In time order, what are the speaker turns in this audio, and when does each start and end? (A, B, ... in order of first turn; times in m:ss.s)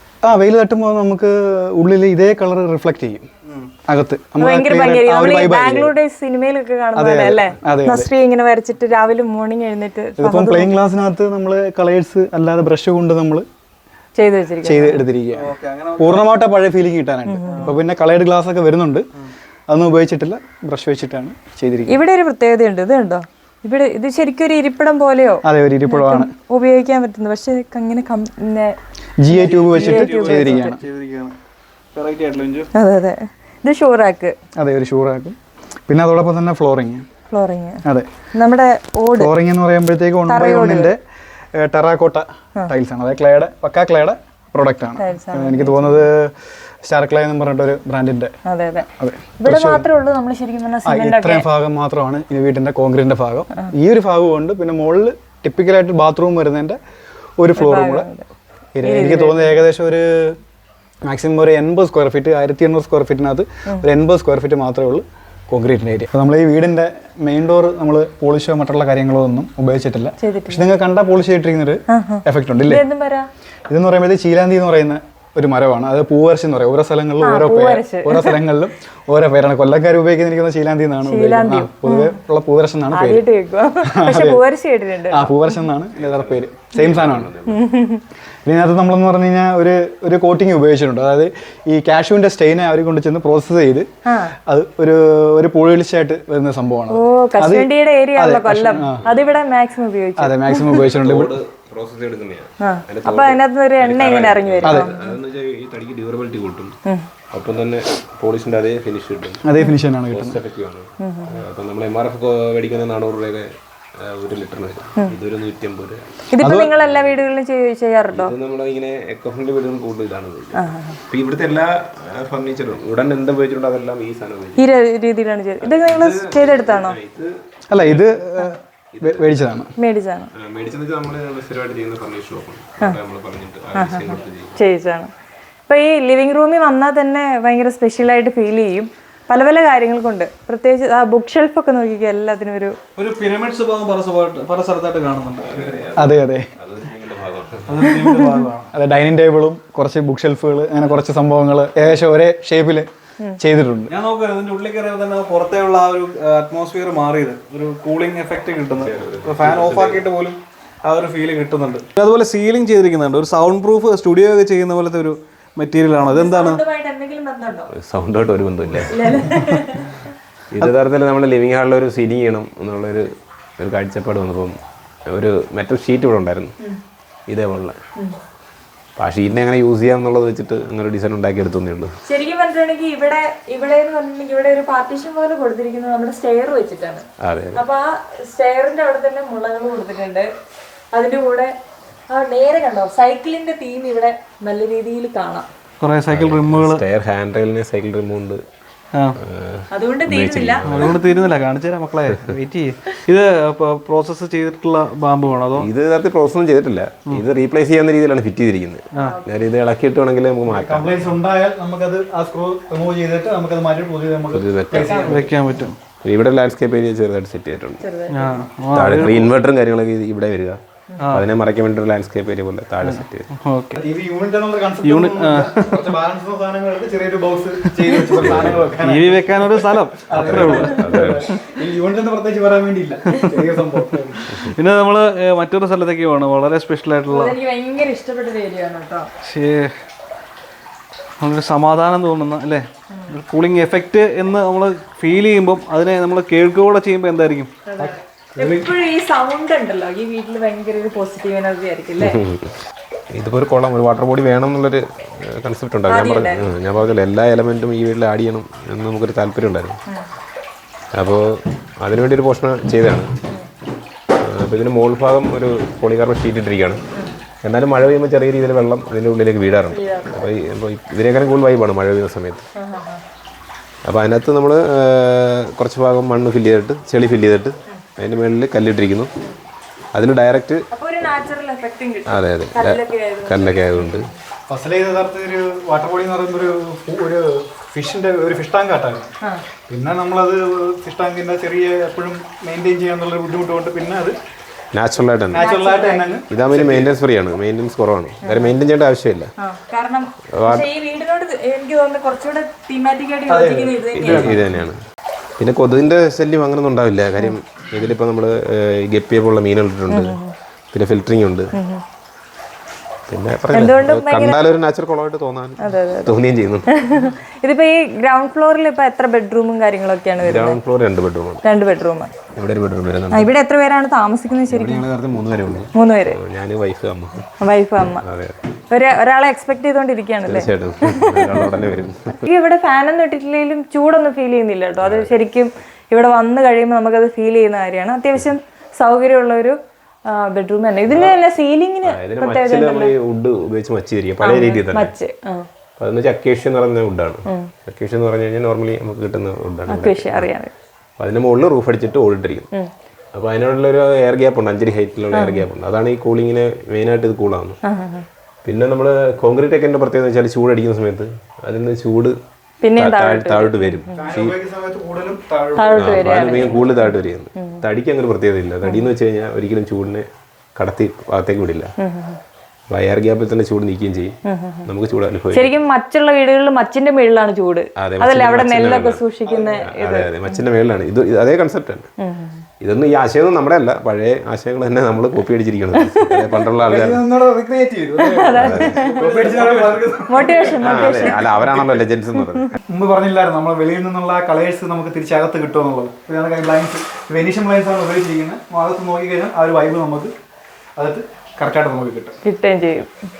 0:00.2-0:03.3 A
0:03.5-0:03.7 B
0:03.9-0:05.9 A
0:04.4-0:10.7 C
0:07.0-0:08.1 A
0:10.2-0:13.4 A
0:14.2-0:15.0 C
0:14.6-0:19.1 A
0:15.3-0:16.3 B
0:17.3-0:17.8 C
0:19.7-0:22.0 A
0:21.9-0:28.8 C
0:25.4-0:26.3 A
0:29.2-0:30.8 A
0:29.3-0:30.8 C
0:29.3-0:31.3 B
0:31.9-0:32.7 B
0:32.7-0:34.3 C
0:34.6-0:35.4 A
0:35.9-0:37.1 A
0:37.3-0:37.8 C
0:37.8-0:38.1 A
0:38.3-0:39.3 C
0:39.1-0:41.0 A
0:40.3-0:40.9 C
0:41.6-0:48.3 A
0:45.0-0:46.0 C
0:48.5-0:48.9 C
0:49.0-0:49.8 A
0:49.4-0:51.4 C
0:50.8-0:56.8 A
0:57.4-0:58.0 A
0:57.6-0:58.2 C
0:58.8-1:00.4 A
0:58.8-0:59.6 C
1:01.1-1:12.8 A
1:10.2-1:10.6 C
1:11.9-1:13.3 C
1:13.7-1:23.2 A
1:17.2-1:18.4 C
1:21.0-1:22.2 C
1:22.9-1:25.4 C
1:23.8-1:24.4 A
1:25.1-1:27.3 A
1:25.9-1:27.7 D
1:27.5-1:28.0 C
1:28.4-1:33.9 A
1:34.1-1:34.3 C
1:34.4-1:39.0 A
1:36.9-1:40.6 C
1:39.0-1:39.3 D
1:40.2-1:41.3 A
1:40.6-1:46.8 D
1:42.6-1:45.2 C
1:44.6-1:44.9 A
1:47.3-1:49.4 D
1:49.4-1:50.4 A
1:50.1-1:56.1 D
1:51.0-1:51.4 C
1:56.3-1:58.3 C
1:56.4-1:56.7 A
1:56.7-1:57.1 D
1:58.1-2:04.7 D
2:00.5-2:01.0 C
2:04.6-2:07.0 C
2:05.6-2:08.2 D
2:07.7-2:09.7 A
2:08.9-2:09.4 D
2:09.8-2:10.3 C
2:10.3-2:14.6 D
2:13.7-2:15.1 C
2:15.7-2:22.8 C
2:23.0-2:25.8 B
2:25.4-2:28.0 D
2:26.0-2:26.5 A
2:27.7-2:28.7 B
2:28.7-2:32.9 A
2:33.4-2:33.9 A
2:33.9-2:46.6 B
2:38.8-2:40.0 D
2:46.0-2:47.7 C
2:47.7-2:49.2 D
2:48.9-2:50.0 C
2:50.5-2:54.6 D
2:55.1-2:56.5 D
2:57.3-2:57.8 D
2:59.0-3:01.9 D
3:02.1-3:10.3 C
3:07.2-3:07.6 D
3:10.9-3:11.5 C
3:12.1-3:15.5 C
3:15.8-3:16.8 B
3:16.1-3:18.4 D
3:19.2-3:21.0 D
3:19.7-3:21.1 C
3:20.6-3:25.7 B
3:25.6-3:31.1 D
3:29.0-3:29.2 C
3:30.4-3:35.2 A
3:34.3-3:35.3 D
3:34.7-3:35.8 B
3:36.0-3:37.8 D
3:37.8-3:38.5 C
3:38.1-3:39.3 B
3:38.7-3:43.3 D
3:41.0-3:41.3 B
3:42.8-3:43.8 B
3:43.8-3:54.3 A
3:44.8-3:45.8 B
3:48.1-3:48.7 D
3:48.8-3:51.1 B
3:50.2-3:51.2 D
3:53.1-3:53.4 B
3:54.3-3:57.4 B
3:57.1-3:59.1 C
3:59.2-3:59.7 B
4:01.2-4:07.5 B
4:07.7-4:12.2 C
4:07.8-4:08.7 A
4:12.0-4:12.6 D
4:13.1-4:19.8 D
4:15.9-4:16.5 C
4:21.0-4:23.2 D
4:24.2-4:26.8 D
4:27.4-4:32.4 D
4:29.7-4:30.2 C
4:32.6-4:33.0 C
4:33.9-4:39.1 D
4:39.9-4:40.6 D
4:40.7-4:44.1 C
4:42.1-4:44.1 D
4:44.5-4:49.1 A
4:49.7-4:54.1 A
4:54.7-4:55.5 D
4:55.3-4:56.9 A
4:55.4-4:56.2 C
4:56.3-4:59.3 D
4:58.2-4:58.5 C
4:59.4-5:04.5 C
5:00.3-5:00.7 D
5:03.3-5:04.4 A
5:03.9-5:04.8 D
5:05.4-5:10.2 D
5:09.9-5:10.3 C
5:10.7-5:11.5 D
5:11.5-5:11.8 C
5:13.1-5:16.8 D
5:13.5-5:14.4 C
5:15.6-5:16.2 C
5:16.7-5:20.6 C
5:20.2-5:21.4 D
5:21.4-5:22.1 C
5:22.4-5:23.3 D
5:23.1-5:24.8 C
5:24.5-5:27.3 D
5:25.7-5:26.2 C
5:27.4-5:28.0 C
5:28.0-5:28.4 D
5:28.7-5:31.6 C
5:30.2-5:32.3 D
5:32.2-5:42.9 C
5:34.8-5:35.1 D
5:40.9-5:41.2 D
5:41.8-5:44.9 D
5:44.2-5:45.5 C
5:45.8-5:50.3 D
5:49.7-5:50.5 C
5:51.0-5:52.5 D
5:53.1-5:57.6 D
5:55.1-5:55.5 C
5:57.6-5:58.0 C
5:58.4-6:02.2 D
6:02.6-6:04.0 C
6:02.8-6:04.3 D
6:04.0-6:06.5 A
6:05.6-6:06.8 C
6:05.7-6:11.7 D
6:08.6-6:08.9 C
6:11.8-6:12.2 C
6:12.7-6:15.6 D
6:14.2-6:14.7 C
6:15.3-6:20.4 C
6:17.8-6:21.9 D
6:19.2-6:19.5 A
6:22.0-6:22.4 C
6:22.6-6:27.0 D
6:25.8-6:26.3 C
6:26.6-6:31.8 A
6:28.0-6:29.4 C
6:28.3-6:28.9 D
6:29.0-6:29.7 B
6:30.1-6:31.6 C
6:30.6-6:32.6 D
6:32.7-6:40.1 A
6:40.8-6:42.2 A
6:42.2-6:42.9 C